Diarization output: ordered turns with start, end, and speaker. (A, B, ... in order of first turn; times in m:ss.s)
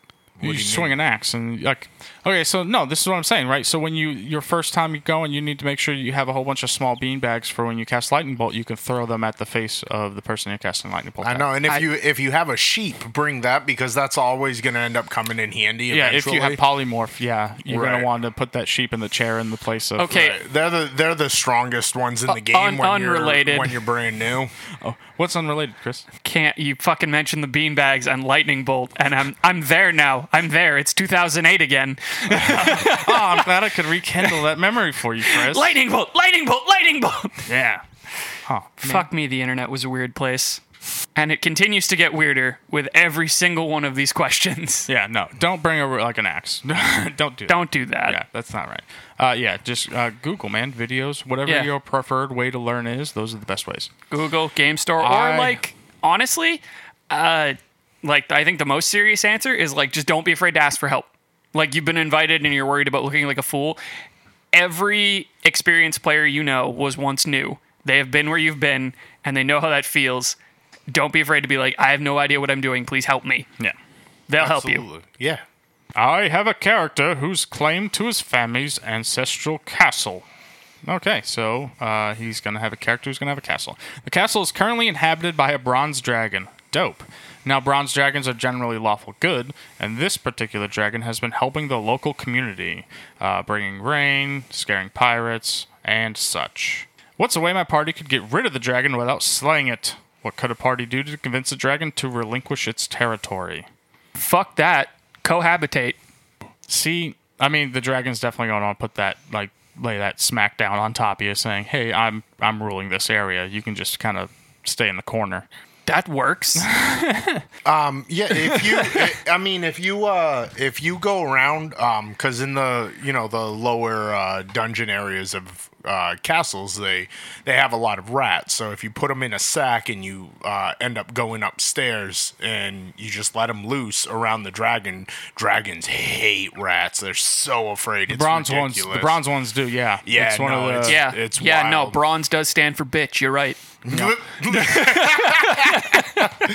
0:00.4-0:01.0 A
0:00.4-0:11.5 B
0:11.2-0:16.6 A
0:15.9-0:20.2 B
0:17.7-0:18.1 A
0:20.0-0:20.4 C
0:20.1-0:24.5 A
0:22.3-0:23.8 C
0:24.8-0:26.0 B
0:26.2-0:33.5 C
0:32.3-0:35.8 B
0:35.2-0:37.5 C
0:37.5-0:37.8 B
0:38.5-0:39.1 B
0:38.8-0:40.6 C
0:41.2-0:44.9 C
0:44.9-0:53.9 B
0:47.5-0:48.2 C
0:51.4-0:51.7 C
0:54.1-1:03.8 C
0:55.0-0:55.6 B
1:04.5-1:10.4 C
1:10.9-1:13.5 C
1:14.3-1:14.8 C
1:14.4-1:15.4 A
1:16.0-1:20.2 B
1:20.8-1:43.7 B
1:44.2-1:46.0 C
1:46.7-1:55.5 B
1:55.9-1:56.7 C
1:56.6-1:57.4 B
1:57.6-2:19.2 A
1:58.5-1:59.0 C
2:18.1-2:21.0 B
2:20.0-2:22.0 A
2:20.9-2:23.6 C
2:23.8-2:25.8 A
2:23.9-2:24.2 B
2:24.5-2:26.3 C